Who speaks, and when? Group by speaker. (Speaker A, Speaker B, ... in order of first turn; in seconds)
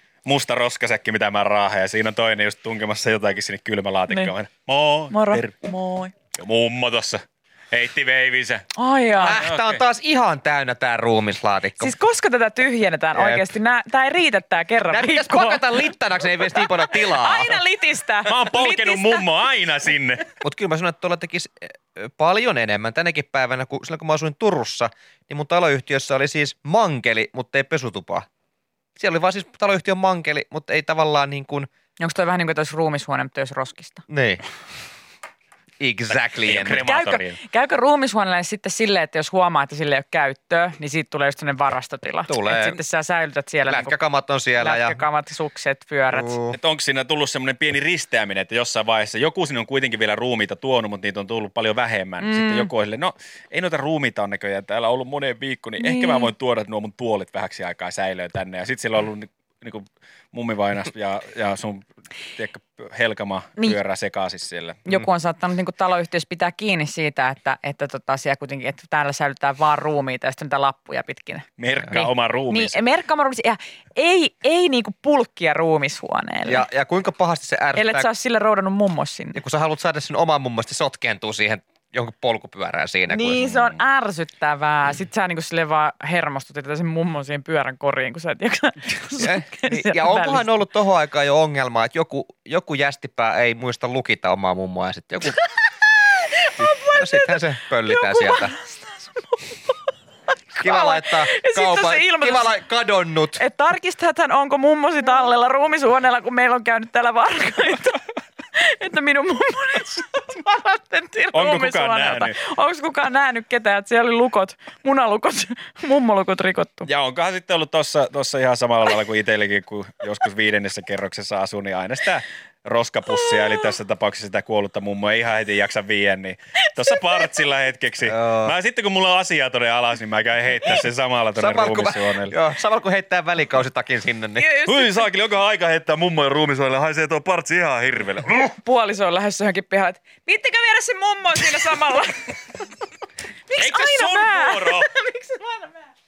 Speaker A: 0.2-5.5, 6.3-8.7, 9.4-9.7, 18.2-20.3, 36.3-37.4, 46.5-64.8, 71.6-72.8, 111.3-112.3, 116.8-132.3, 134.6-138.5, 143.6-144.9
Speaker B: 5.1-6.1, 8.7-9.4, 11.8-15.8, 16.5-19.2, 32.0-34.0, 36.6-43.9, 44.6-46.4, 52.2-52.7, 55.8-56.3, 64.8-76.6, 77.8-79.4, 83.1-90.5, 96.3-99.8, 100.5-102.5, 103.4-108.0, 108.5-116.9, 134.4-135.0, 138.5-142.3, 143.5-145.8
Speaker C: 9.1-11.9, 13.1-13.4, 14.9-17.6, 20.4-28.3, 29.0-31.7, 34.1-34.4, 35.8-36.8, 42.3-42.8, 43.7-45.0, 46.1-46.6, 76.5-78.1, 79.3-83.7, 89.2-95.4, 96.6-98.5, 100.6-103.4, 128.1-128.5, 131.3-134.5